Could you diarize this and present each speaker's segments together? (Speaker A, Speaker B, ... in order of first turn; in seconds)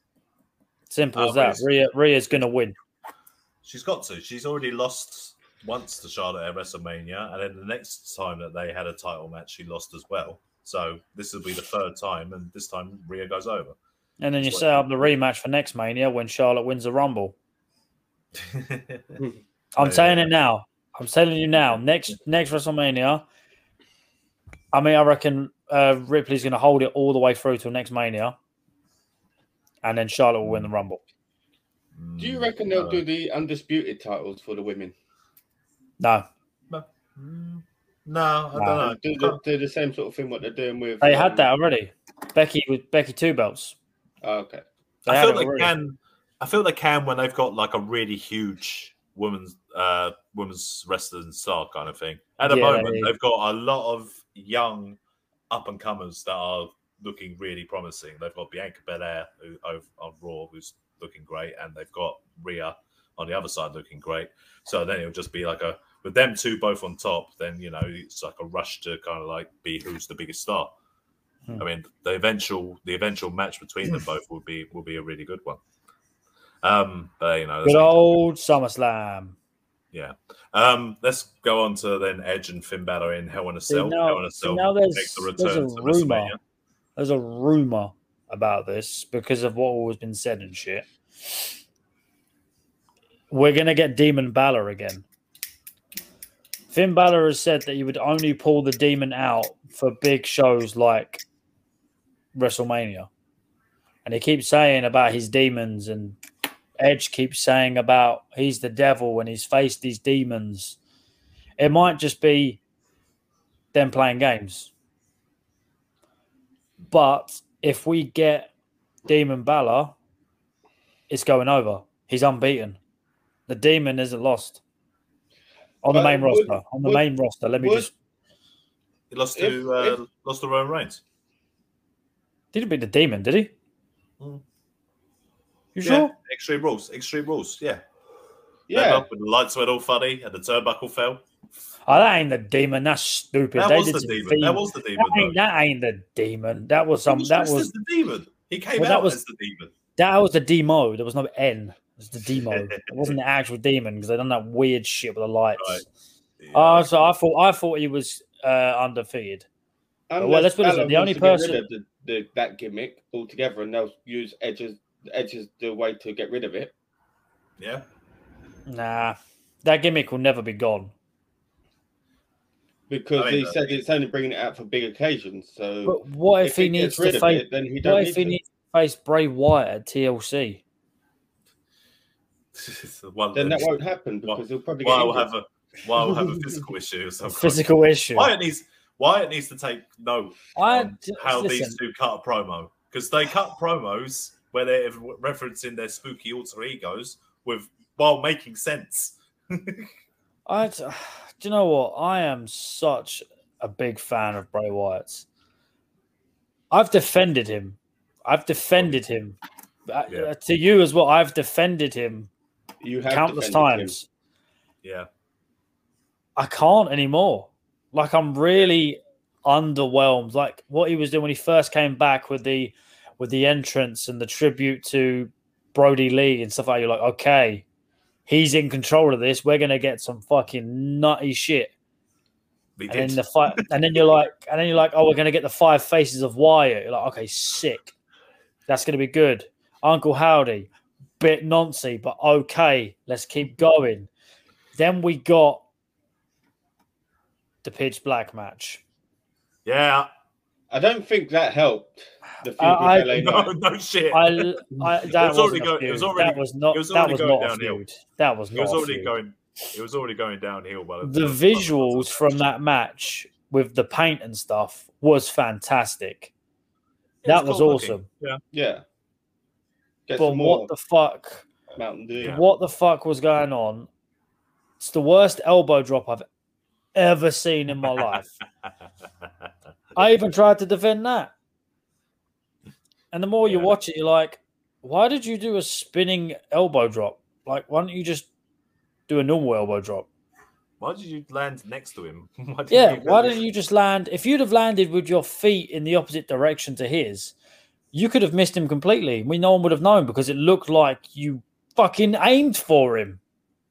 Speaker A: 0.9-2.8, 14.2-17.4, 19.8-23.2, 24.7-28.4, 29.8-31.0, 36.0-36.3, 38.6-38.8, 41.0-43.8, 45.1-45.7, 52.4-53.1, 77.6-79.4, 83.7-86.3, 87.0-90.9, 93.3-95.0, 96.7-101.2, 102.3-103.1, 104.0-106.2, 106.8-110.8, 111.6-112.6, 113.7-114.7, 116.9-118.5, 119.1-120.0, 121.1-122.8, 123.5-124.6, 125.8-127.9, 132.5-133.5, 135.8-136.1, 141.9-147.7, 148.8-149.2, 150.0-155.8, 156.5-159.5, 160.2-161.6, 168.7-170.9, 175.9-180.6, 187.2-188.3, 190.6-191.8, 200.5-205.3, 206.7-209.4, 209.9-212.3, 213.1-214.1, 216.4-227.7, 228.3-231.7, 232.9-237.9, 238.7-240.7, 241.2-244.1, 244.8-245.6, 247.6-248.8, 252.6-253.2, 254.1-259.1, 261.0-266.3, 267.3-268.1, 270.2-271.5, 272.2-273.9, 274.8-276.3, 276.9-278.3, 280.0-281.3, 283.1-288.3, 289.1-290.1, 292.7-297.3, 297.9-303.2
Speaker B: 1.1-1.7, 3.6-13.8, 14.4-15.1, 18.4-19.2, 19.8-20.3, 31.9-33.0, 36.7-39.4, 45.1-55.0, 55.5-70.7, 71.6-75.6, 76.6-78.2, 79.9-86.4, 129.1-131.0, 135.8-137.8, 138.7-141.2, 143.6-145.4, 147.1-149.7, 152.3-153.2, 155.6-155.8, 156.4-156.9, 167.6-167.8, 173.2-173.6, 182.6-187.6, 188.2-199.9, 214.8-215.1, 232.8-234.0, 249.7-250.1, 253.1-257.8, 258.5-262.5, 267.2-268.4, 272.2-272.4, 283.5-283.7, 290.8-293.4
Speaker C: 32.2-34.9, 38.8-41.5, 44.2-44.6, 125.9-127.0, 127.6-127.9, 129.4-130.0, 138.7-139.1, 160.1-166.7, 172.9-178.4, 183.3-185.3, 212.8-214.0, 250.7-253.5, 268.5-268.8, 270.1-270.7, 271.8-272.4